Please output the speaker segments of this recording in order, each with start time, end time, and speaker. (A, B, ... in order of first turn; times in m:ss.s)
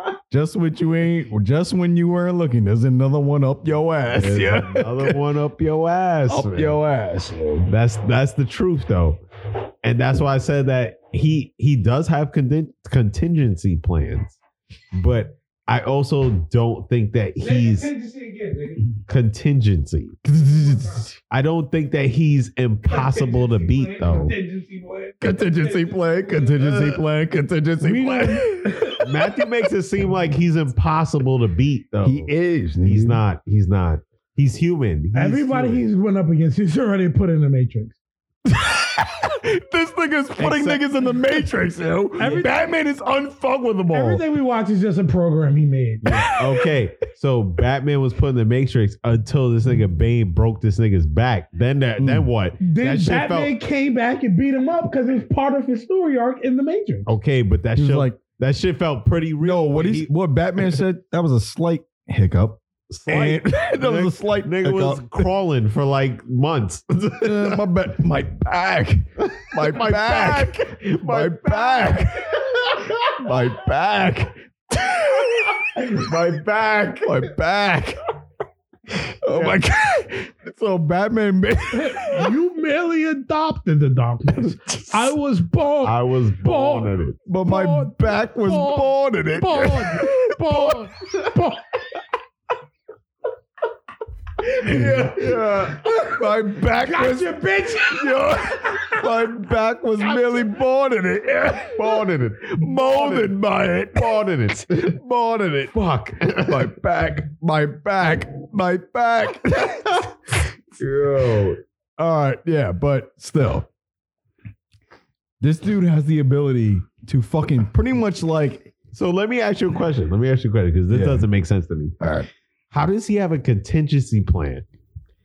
0:00.3-0:05.2 A
0:04.1-0:06.8 B
0:06.3-0:07.7 A
0:07.7-0:09.2 B
0:09.8-0:14.4 B
0:15.0-0:17.9 B
0:17.4-0:18.8 C
0:19.1-0:20.2 B
0:20.2-0:21.1 A
0:20.3-0:21.1 C
0:21.3-0:24.3 B
0:22.9-0:27.0 C
0:25.2-0:28.8 A
0:27.8-0:29.4 C
0:29.0-0:32.3 B
0:32.0-0:33.2 A
0:32.8-0:35.8 B
0:35.1-0:38.0 C
0:38.4-0:44.2 A
0:40.4-0:40.8 B
0:42.2-0:42.5 C
0:42.2-0:42.5 B
0:43.9-0:46.1 C
0:46.0-0:46.7 A
0:46.1-0:53.5 B
0:52.0-0:52.3 A
0:52.6-0:57.1 C
0:57.0-1:00.8 B
0:57.8-0:58.2 A
0:59.4-1:05.3 A
1:02.9-1:07.6 B
1:07.2-1:12.5 A
1:09.2-1:13.1 B
1:13.1-1:15.9 A
1:15.7-1:17.3 B
1:17.0-1:18.0 A
1:19.2-1:22.3 A
1:19.3-1:19.6 B
1:21.7-1:31.6 C
1:24.7-1:25.0 A
1:25.8-1:27.2 B
1:27.3-1:30.8 A
1:34.5-1:44.1 A
1:34.6-1:36.2 C
1:34.7-1:35.8 B
1:36.8-1:38.6 C
1:40.0-1:40.4 B
1:41.7-1:43.4 B
1:43.9-1:45.0 B
1:44.7-1:50.0 A
1:45.7-1:46.7 B
1:49.7-1:50.0 B
1:50.8-1:51.6 B
1:52.0-1:53.7 A
1:55.4-1:58.7 A
1:58.9-2:02.0 B
2:00.9-2:01.3 A
2:02.0-2:02.3 A
2:02.7-2:04.6 B